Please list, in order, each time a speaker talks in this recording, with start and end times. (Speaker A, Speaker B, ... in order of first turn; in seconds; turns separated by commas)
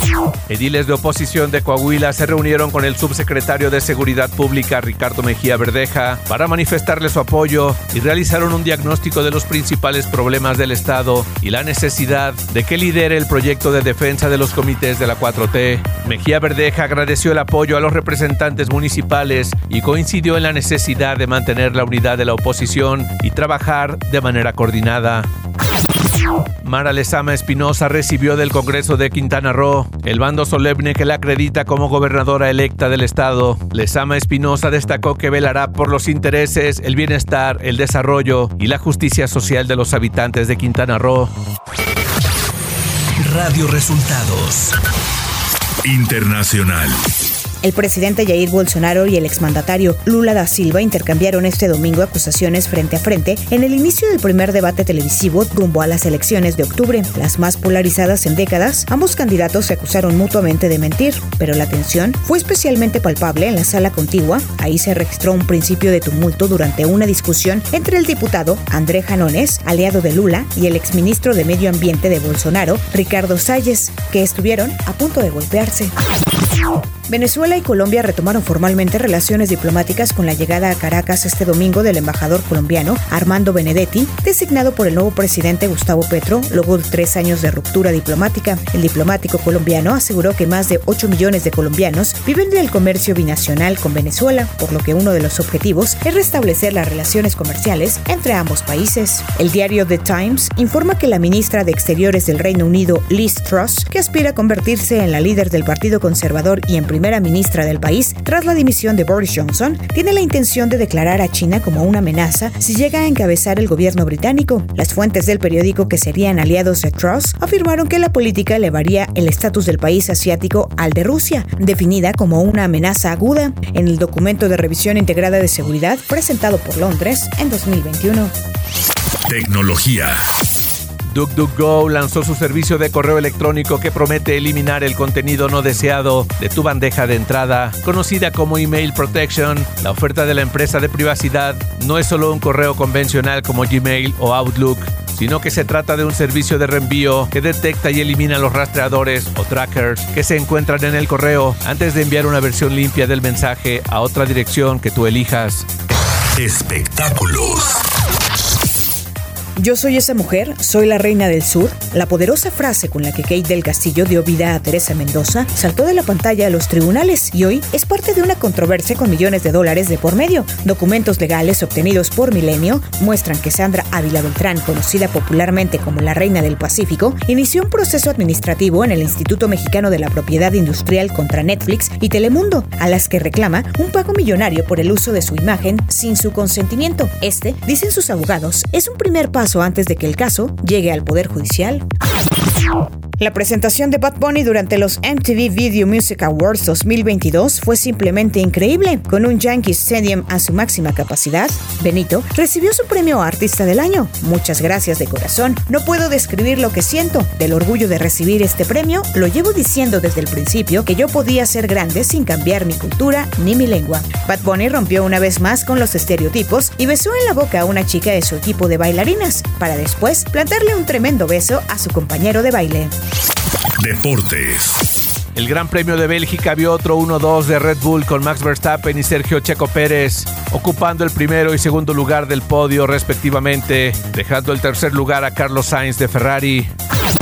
Speaker A: 0.5-25.3, Speaker A: 26.6-41.3, Speaker A: 43.2-44.7, Speaker B: 45.8-46.9, Speaker C: 47.6-75.9, Speaker C: 77.1-128.3, Speaker B: 129.3-130.2, Speaker A: 131.1-155.7, Speaker B: 156.3-157.8, Speaker C: 159.6-191.8, Speaker C: 193.2-222.9, Speaker B: 223.8-224.8, Speaker A: 225.3-236.7